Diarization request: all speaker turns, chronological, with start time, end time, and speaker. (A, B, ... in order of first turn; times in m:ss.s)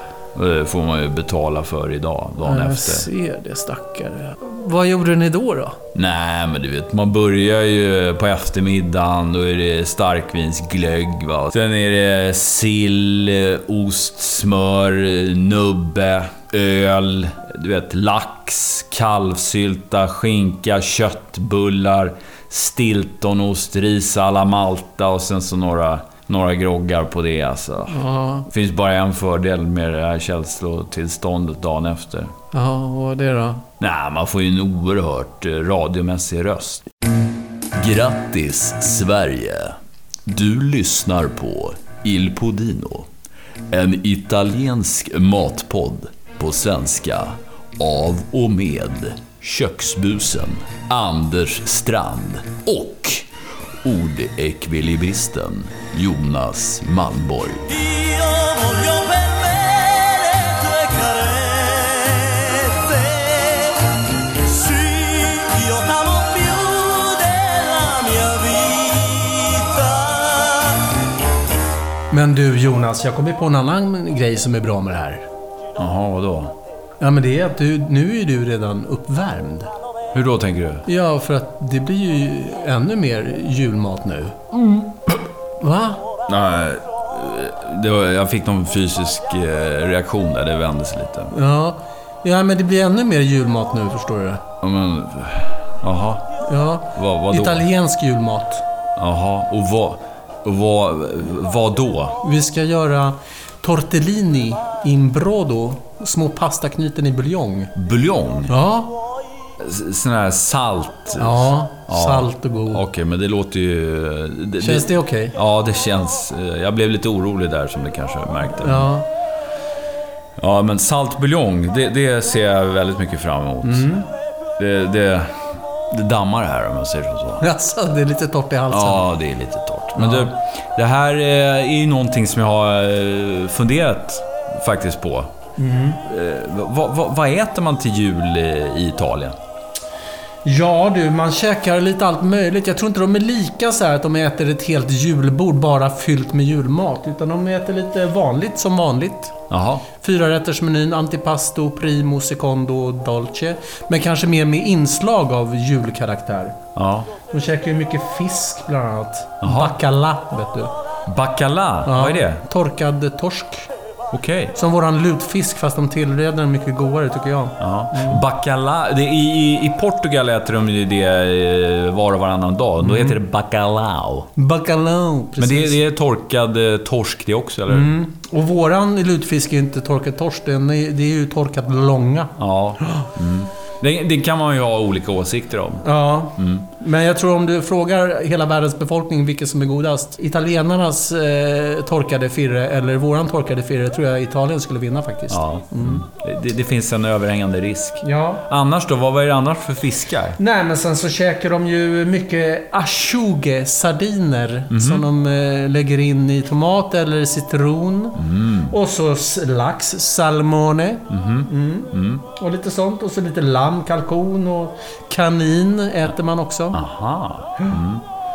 0:00.3-0:03.1 A
0:02.4-0:05.8 B
0:05.9-0:32.3 A
0:27.9-0:28.5 B
0:32.5-0:33.6 B
0:33.8-0:36.8 A
0:37.7-0:43.1 A
0:43.7-0:53.3 A
0:53.8-0:59.7 A
0:59.5-1:00.4 C
1:00.5-1:01.3 A
1:01.5-1:02.8 C
1:04.7-1:05.6 C
1:05.8-1:06.4 A
1:06.4-1:10.4 C
1:12.1-1:15.3 B
1:15.8-1:16.5 A
1:17.0-1:19.7 B
1:20.1-1:20.8 A
1:20.8-1:26.0 B
1:26.3-1:31.3 A
1:31.3-1:34.4 B
1:34.6-1:36.2 A
1:36.4-1:38.6 B
1:36.9-1:37.6 A
1:39.0-1:42.2 A
1:42.2-1:47.7 B
1:47.7-1:48.5 A
1:48.5-1:48.9 B
1:49.6-1:58.9 A
1:51.2-1:52.8 B
1:54.6-1:55.3 B
1:58.6-1:59.1 B
2:00.4-2:04.0 A
2:03.6-2:04.1 B
2:04.6-2:07.4 A
2:07.4-2:09.1 B
2:08.7-2:15.3 A
2:10.0-2:10.3 B
2:15.6-2:16.0 B
2:16.0-2:19.3 A
2:20.4-2:29.4 B
2:29.5-2:29.8 A
2:30.0-2:36.6 B
2:36.8-2:37.1 A
2:37.3-2:40.7 B
2:39.4-2:39.8 A
2:41.1-2:42.4 A
2:41.8-2:43.7 B
2:44.1-2:44.6 A
2:44.5-2:48.2 B
2:47.6-2:54.3 A
2:52.8-2:53.2 B
2:54.4-2:55.8 B
2:55.4-2:57.9 A
2:57.7-3:02.3 B
3:02.4-3:05.8 A
3:05.8-3:16.0 B
3:06.4-3:06.6 A
3:15.3-3:20.4 A
3:18.0-3:18.4 B
3:20.4-3:36.8 B
3:24.7-3:25.1 A
3:28.2-3:28.7 A
3:31.1-3:32.2 A
3:36.7-3:38.0 A